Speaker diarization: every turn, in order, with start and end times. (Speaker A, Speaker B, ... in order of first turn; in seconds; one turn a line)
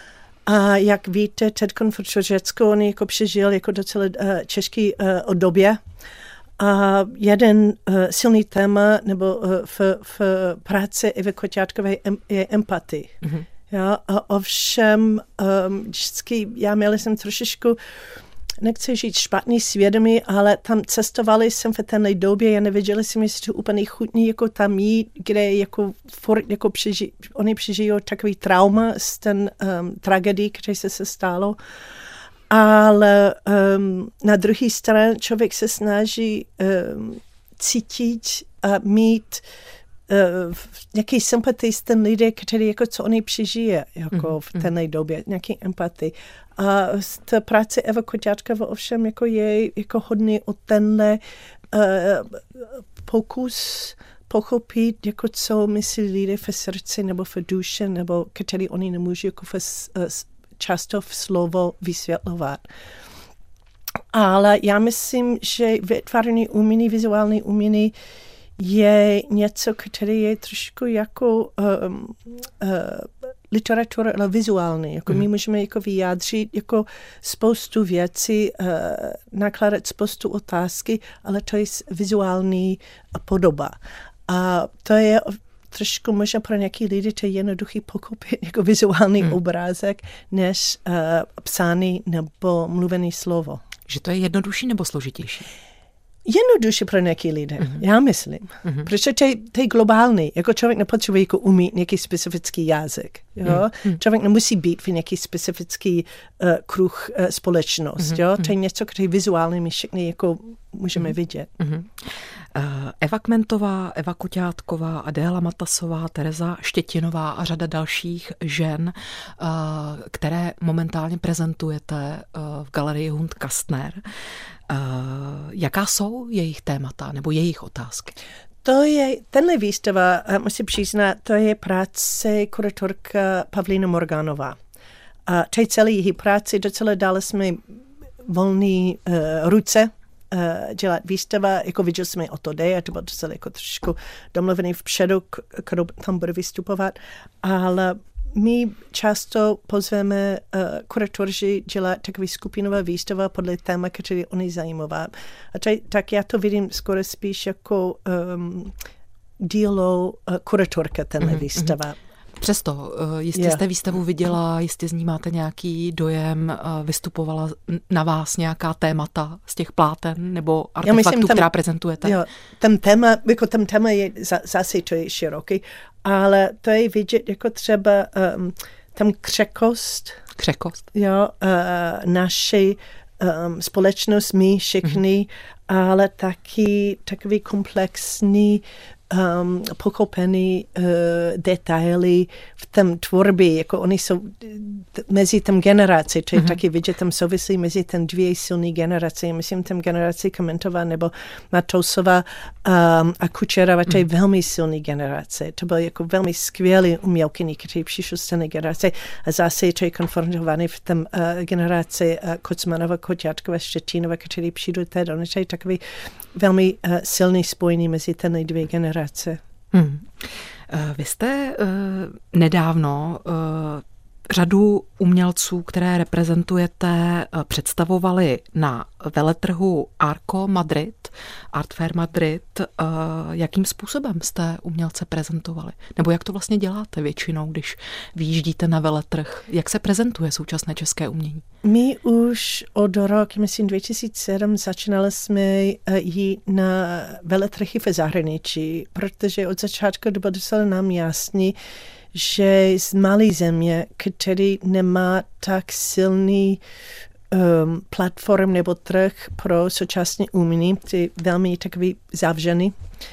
Speaker A: 0.5-5.8
Speaker A: 6.6-17.8
Speaker A: 18.6-31.6
Speaker A: 32.5-39.4
Speaker A: 40.1-51.2
Speaker A: 51.7-62.6
Speaker A: 64.1-67.9
Speaker A: 68.6-83.8
Speaker A: 84.3-93.6
Speaker B: 93.9-95.5
Speaker A: 96.2-111.5
Speaker B: 111.0-124.0
Speaker B: 124.7-128.1
Speaker A: 128.6-134.6
Speaker A: 135.3-158.7
Speaker A: 159.4-162.0
Speaker B: 161.2-161.7
Speaker B: 162.4-172.2
Speaker A: 163.3-163.6
Speaker A: 170.8-171.5
Speaker A: 172.0-180.2
Speaker B: 180.4-180.8
Speaker A: 180.9-215.8
Speaker A: 216.3-219.4
Speaker B: 219.7-241.4
Speaker A: 241.6-251.6
Speaker A: 252.1-256.6
Speaker A: 257.3-262.8